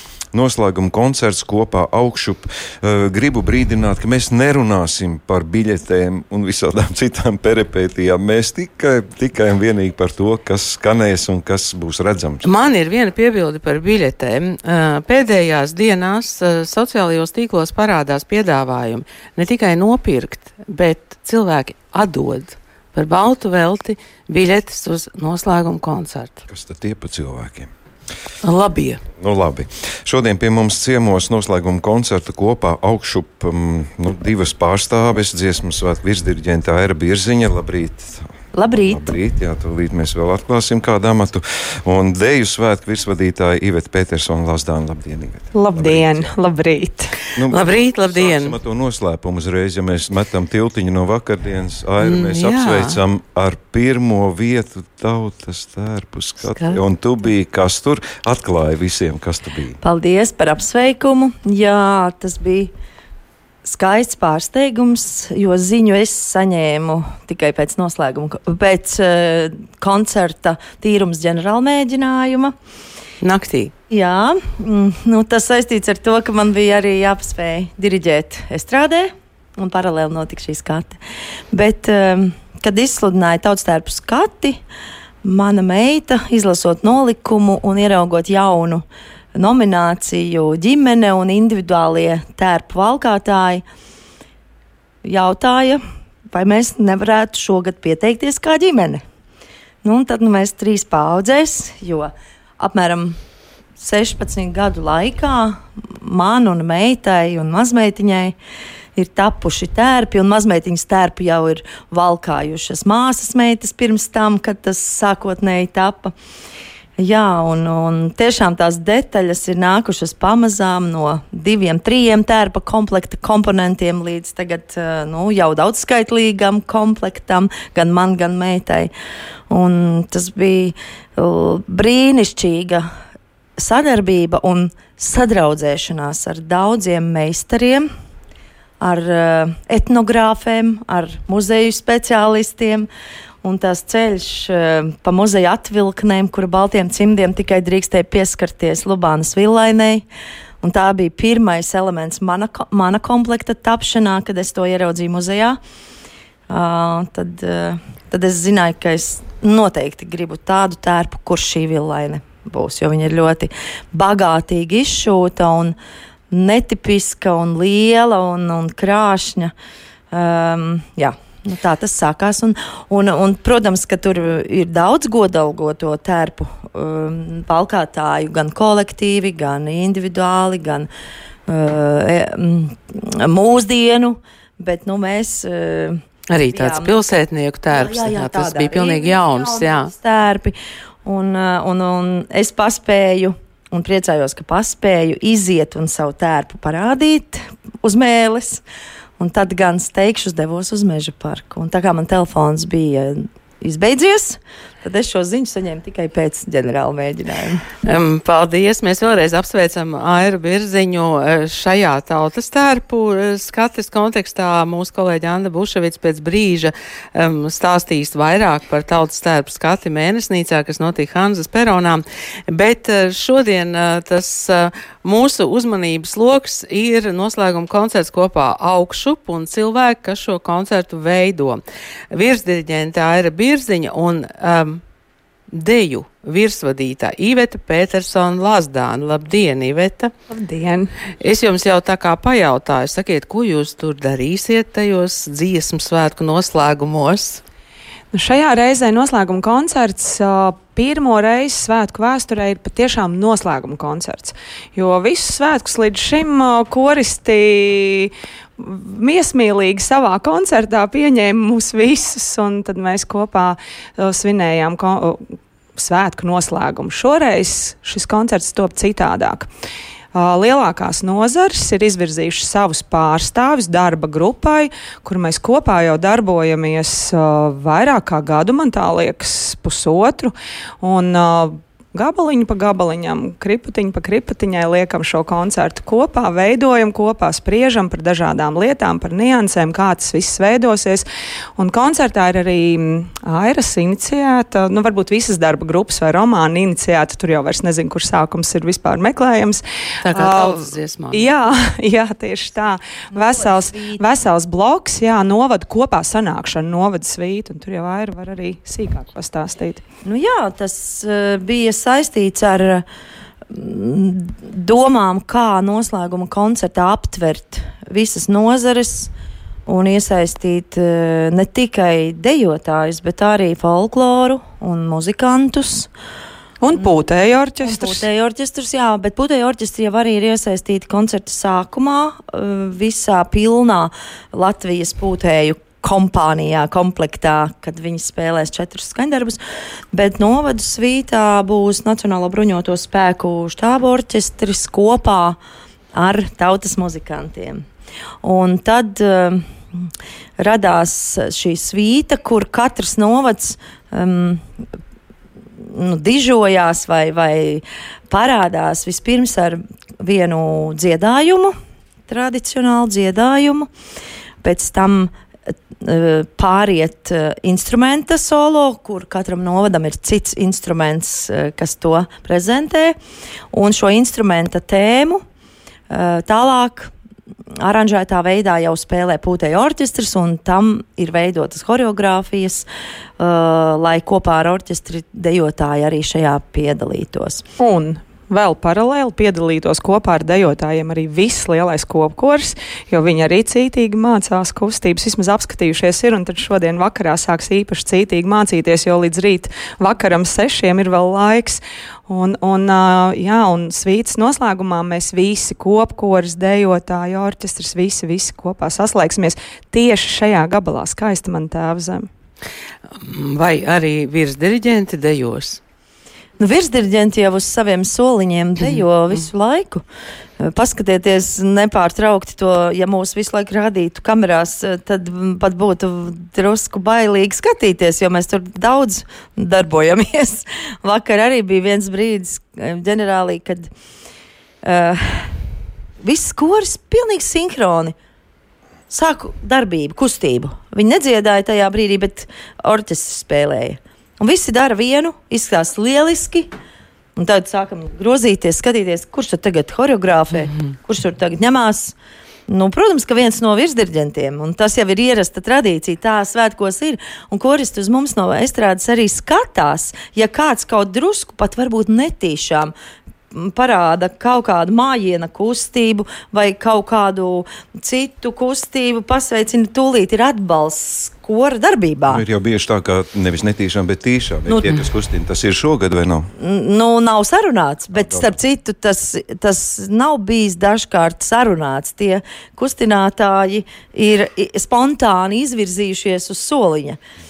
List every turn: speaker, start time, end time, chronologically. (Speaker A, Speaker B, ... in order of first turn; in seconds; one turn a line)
Speaker A: 0.3-12.5
Speaker B: 12.4-26.4
Speaker A: 26.5-27.7
Speaker B: 28.4-29.0
Speaker A: 29.2-46.3
Speaker C: 38.5-39.1
Speaker D: 45.5-47.1
Speaker A: 47.4-59.8
Speaker B: 47.5-48.5
Speaker B: 52.0-53.0
Speaker B: 56.5-56.8
Speaker C: 59.8-62.7
Speaker C: 63.6-72.5
Speaker B: 73.2-73.7
Speaker C: 73.9-81.0
Speaker C: 81.5-84.6
Speaker C: 85.2-88.8
Speaker C: 89.3-93.6
Speaker C: 95.0-95.8
Speaker C: 96.3-99.0
Speaker C: 99.8-103.2
Speaker C: 103.8-108.3
Speaker C: 109.0-116.1
Speaker C: 117.0-128.9
Speaker C: 129.5-132.9
Speaker C: 133.6-137.8
Speaker C: 138.8-142.9
Speaker C: 143.4-150.0
Speaker C: 150.6-155.6
Speaker C: 156.5-165.8
Speaker C: 166.3-169.5
Speaker C: 170.1-180.9
Speaker C: 181.5-186.0
Speaker B: 186.3-189.9
Speaker C: 186.5-187.0
Speaker C: 187.7-198.6
Speaker C: 199.2-207.6
Speaker B: 207.8-231.6
Speaker B: 232.1-234.8
Speaker B: 235.5-240.1
Speaker D: 240.3-240.9
Speaker B: 241.2-247.4
Speaker D: 248.1-265.2
Speaker D: 265.8-269.5
Speaker D: 270.1-309.8
Speaker B: 300.0-301.3
Speaker C: 303.1-304.0
Speaker C: 310.0-312.8
Speaker C: 313.5-319.1
Speaker C: 319.6-325.9
Speaker D: 326.6-328.1
Speaker C: 327.6-339.4
Speaker C: 339.9-345.4
Speaker C: 345.9-347.6
Speaker C: 348.2-349.9
Speaker C: 350.4-354.4
Speaker C: 355.6-361.5
Speaker C: 362.1-363.7
Speaker C: 364.4-372.9
Speaker C: 373.5-375.2
Speaker C: 375.9-376.9
Speaker C: 377.6-382.7
Speaker C: 383.2-387.4
Speaker D: 387.6-412.1
Speaker B: 413.0-415.6
Speaker C: 416.4-419.8
Speaker C: 420.4-433.7
Speaker C: 434.6-435.3
Speaker C: 436.0-437.9
Speaker C: 438.9-446.5
Speaker C: 447.2-451.9
Speaker C: 452.5-462.7
Speaker C: 463.3-472.2
Speaker A: 472.1-476.3
Speaker C: 474.5-474.7
Speaker C: 476.4-487.0
Speaker A: 477.9-478.3